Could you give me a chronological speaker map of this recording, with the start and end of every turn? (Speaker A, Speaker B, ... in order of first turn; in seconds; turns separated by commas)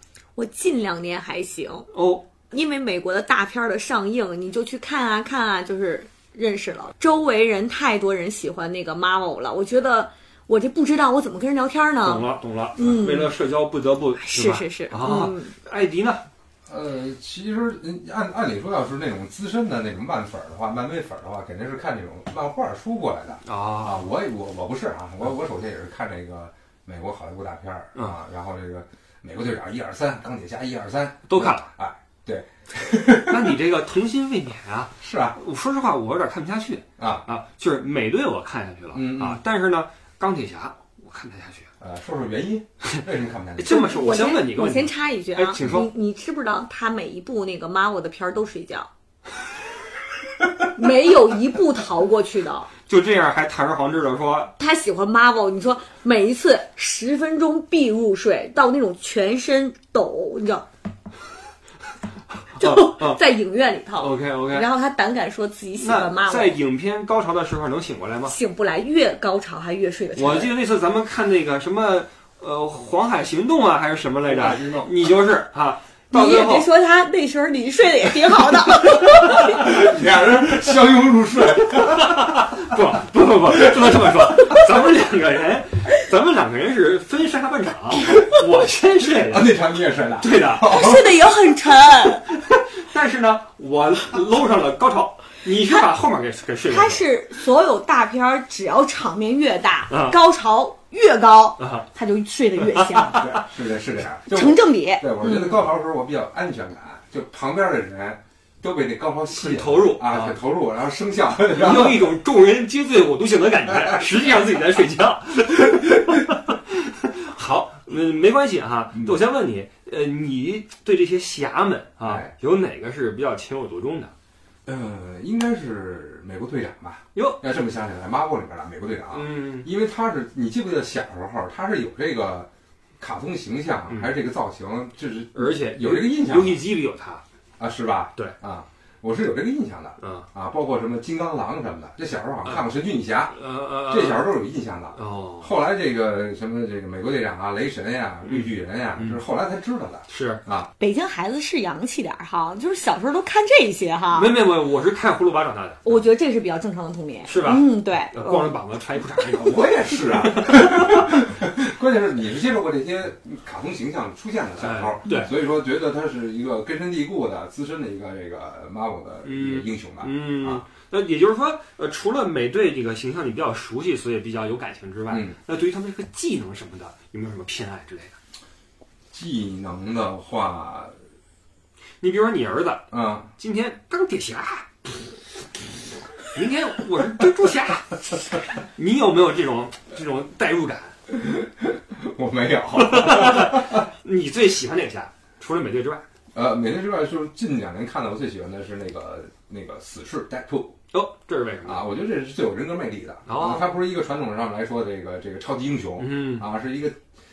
Speaker A: 0.3-1.9, Speaker B: 1.9-2.3, Speaker A: 2.5-13.3, Speaker B: 12.0-16.2, Speaker C: 12.8-13.0, Speaker A: 14.2-15.5, Speaker C: 16.6-33.6, Speaker B: 23.4-24.0, Speaker B: 31.3-31.7, Speaker B: 33.2-41.7, Speaker C: 35.0-35.4, Speaker C: 37.0-37.3, Speaker C: 38.9-39.4, Speaker C: 41.8-44.2, Speaker B: 43.6-45.9, Speaker A: 43.7-48.9, Speaker C: 45.5-45.9, Speaker A: 50.6-52.7, Speaker B: 52.9-54.5, Speaker A: 54.6-60.6, Speaker B: 62.5-63.2, Speaker A: 62.5-66.6, Speaker B: 64.0-64.7, Speaker B: 65.8-68.4, Speaker A: 68.3-70.5, Speaker B: 70.1-76.7, Speaker C: 74.2-74.9, Speaker A: 76.1-79.6, Speaker C: 79.5-82.5, Speaker B: 81.7-89.6, Speaker C: 83.5-84.3, Speaker C: 89.2-91.3, Speaker B: 90.2-90.7, Speaker A: 90.6-92.2, Speaker B: 92.2-97.0, Speaker A: 96.6-103.5, Speaker B: 99.9-100.2, Speaker B: 101.6-101.9, Speaker C: 103.1-112.1, Speaker A: 104.3-105.6, Speaker B: 109.3-110.4, Speaker B: 111.5-124.1, Speaker C: 118.9-119.2, Speaker C: 122.0-122.3, Speaker C: 124.7-136.6, Speaker B: 127.1-127.4, Speaker B: 129.1-129.7, Speaker B: 135.3-137.2, Speaker C: 137.6-150.7, Speaker B: 140.0-140.3, Speaker B: 143.3-144.3, Speaker B: 144.9-145.5, Speaker B: 148.2-149.2, Speaker B: 150.1-150.4, Speaker A: 150.8-154.3, Speaker B: 154.1-156.0, Speaker A: 155.8-158.5, Speaker B: 157.2-161.0, Speaker C: 159.3-170.6, Speaker B: 164.6-165.3, Speaker B: 169.2-178.2, Speaker C: 175.1-175.4, Speaker C: 179.1-180.9, Speaker B: 182.0-185.1, Speaker C: 182.9-183.3, Speaker B: 186.3-190.9, Speaker C: 191.1-193.8, Speaker B: 192.7-196.0, Speaker C: 196.3-200.7, Speaker B: 200.9-201.8, Speaker C: 201.6-207.0, Speaker B: 203.3-203.7, Speaker B: 206.0-206.5